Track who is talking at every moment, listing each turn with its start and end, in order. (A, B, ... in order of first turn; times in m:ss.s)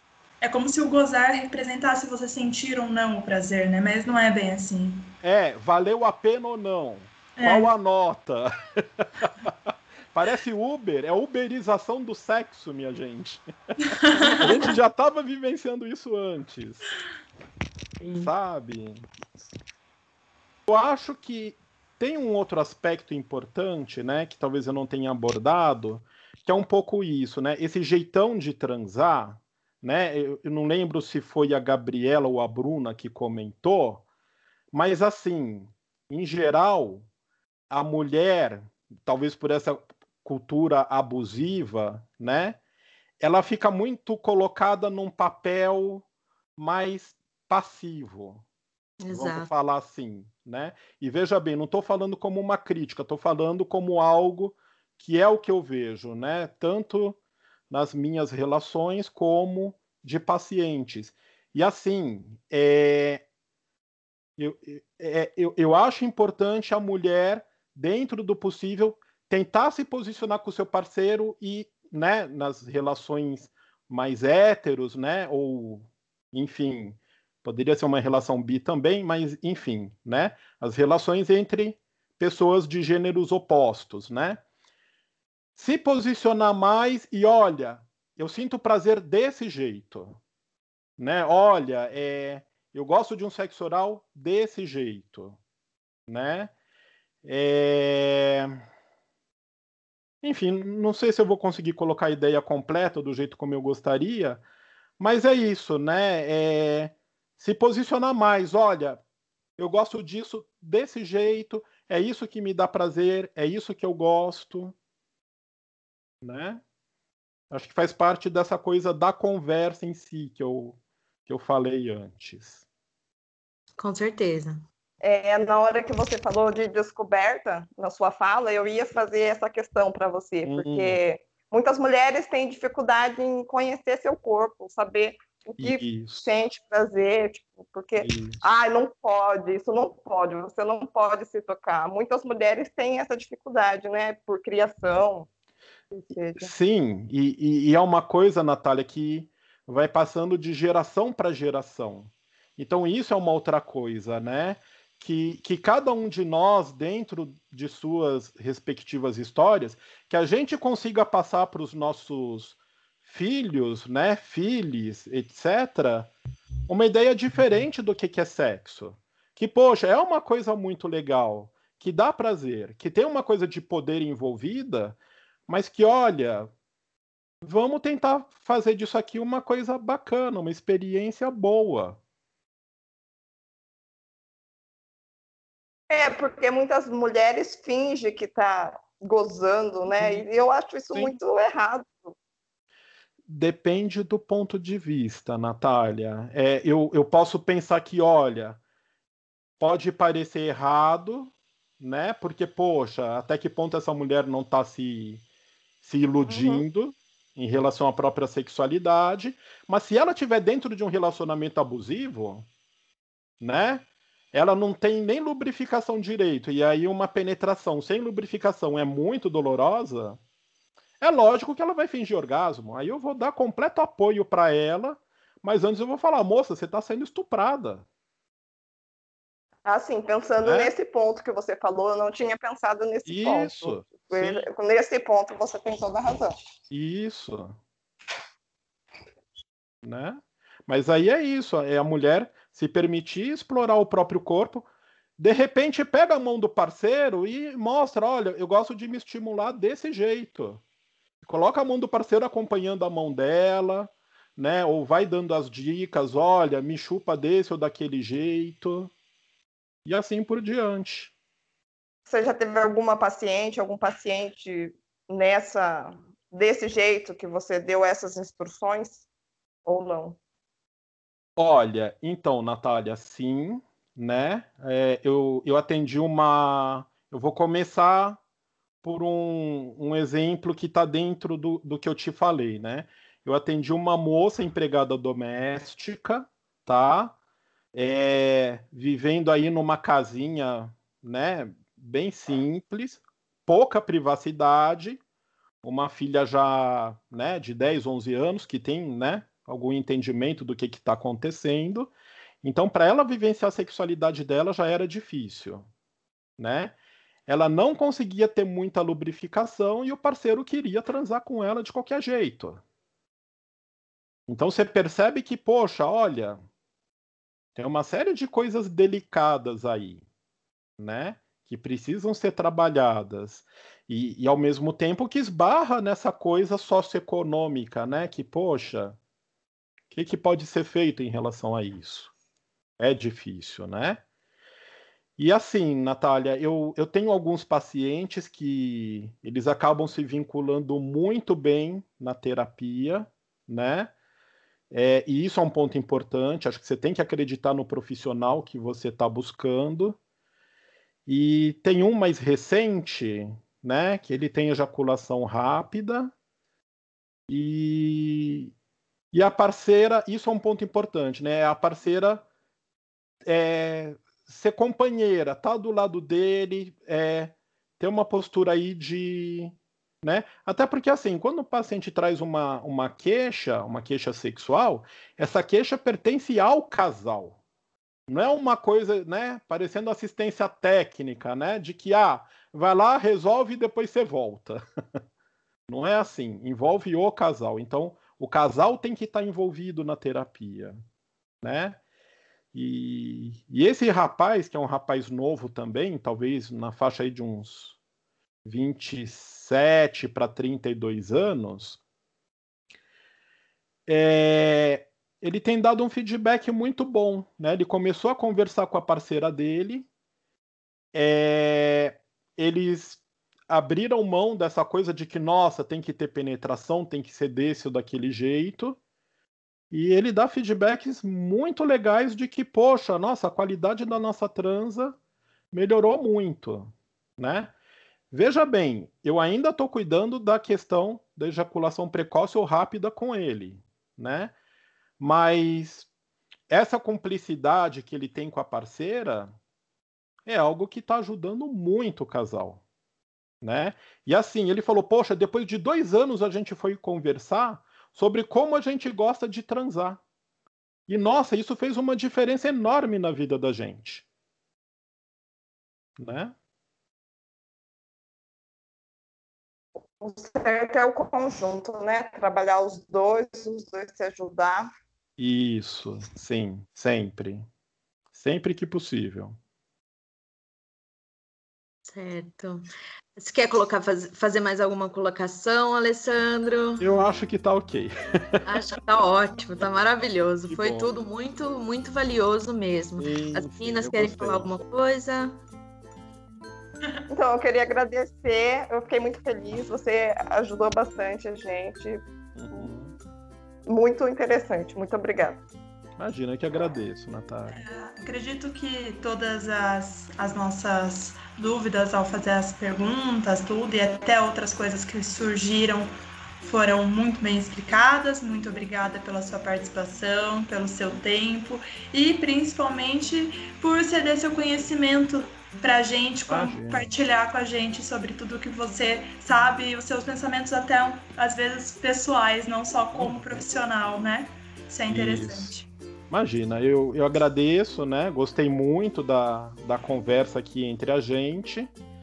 0:00.4-0:05.1 A
0:05.2-0:13.4 B
0:07.4-0:07.7 A
0:14.0-0:14.5 A
0:14.2-0:16.9 B
0:14.4-0:14.7 C
0:18.0-0:18.3 C
0:18.1-0:19.0 B
0:20.7-0:34.0 B
0:34.7-0:37.1 B
0:37.7-0:42.6 B
0:43.2-0:46.0 B
0:46.6-0:48.4 B
0:49.0-0:49.5 C
0:49.1-0:57.2 B
0:57.7-1:03.2 B
1:04.4-1:24.4 B
1:25.6-1:30.2 B
1:31.0-1:35.4 B
1:36.1-1:36.5 B
1:37.2-1:38.6 B
1:40.2-1:44.4 B
1:45.0-1:49.0 B
1:49.6-1:54.7 B
1:56.2-1:56.6 B
1:57.5-2:02.6 B
2:03.8-2:04.6 C
2:05.0-2:25.3 D
2:10.5-2:11.0 B
2:15.6-2:16.3 B
2:18.0-2:18.4 B
2:25.9-2:26.5 D
2:26.4-2:46.1 B
2:46.7-2:56.5 B
2:57.4-3:02.0 B
3:05.9-3:12.2 D
3:09.9-3:10.2 B
3:10.9-3:11.2 B
3:13.3-3:18.6 B
3:19.6-3:25.2 B
3:25.8-3:32.5 B
3:26.3-3:26.6 D
3:33.4-3:40.2 B
3:41.0-3:47.9 B
3:49.6-3:56.3 D
3:50.4-3:50.7 B
3:53.1-3:54.5 B
3:56.7-3:57.6 B
3:59.8-4:04.7 B
4:05.2-4:10.6 B
4:11.2-4:18.9 B
4:19.8-4:21.1 B
4:22.1-4:29.0 D
4:29.6-4:30.2 D
4:31.4-4:38.2 B
4:38.8-4:47.2 B
4:47.7-4:55.0 B
4:55.6-5:01.9 B
5:02.4-5:05.7 B
5:06.4-5:06.8 B
5:07.3-5:12.6 B
5:14.3-5:16.4 B
5:17.6-5:20.0 B
5:20.8-5:29.0 B
5:29.9-5:32.1 B
5:32.8-5:34.0 B
5:35.2-5:43.9 B
5:44.7-5:50.0 B
5:51.1-5:56.1 B
5:57.3-5:58.5 B
5:59.1-6:02.2 B
6:03.2-6:17.4 B
6:18.1-6:24.6 B
6:25.7-6:30.8 B
6:31.4-6:31.8 B
6:32.5-6:37.8 B
6:38.4-6:41.8 B
6:43.9-6:49.9 B
6:50.9-6:58.8 B
6:59.7-7:05.0 B
7:05.5-7:07.5 B
7:08.1-7:14.3 B
7:15.0-7:15.9 B
7:16.5-7:19.3 B
7:20.3-7:22.6 B
7:23.4-7:30.0 B
7:30.9-7:34.1 B
7:36.0-7:36.4 B
7:40.0-7:44.7 D
7:45.2-7:47.5 B
7:48.1-7:49.4 B
7:51.9-7:52.6 C
7:53.2-7:56.9 C
7:56.8-7:58.8 B
7:58.5-8:05.3 C
8:00.5-8:01.0 B
8:03.0-8:04.5 B
8:07.1-8:12.7 D
8:12.4-8:13.0 B
8:13.7-8:15.4 D
8:16.0-8:17.6 B
8:17.5-8:45.7 A
8:36.3-8:36.9 B
8:42.9-8:43.5 B
8:44.9-8:45.6 B
8:46.1-8:51.7 B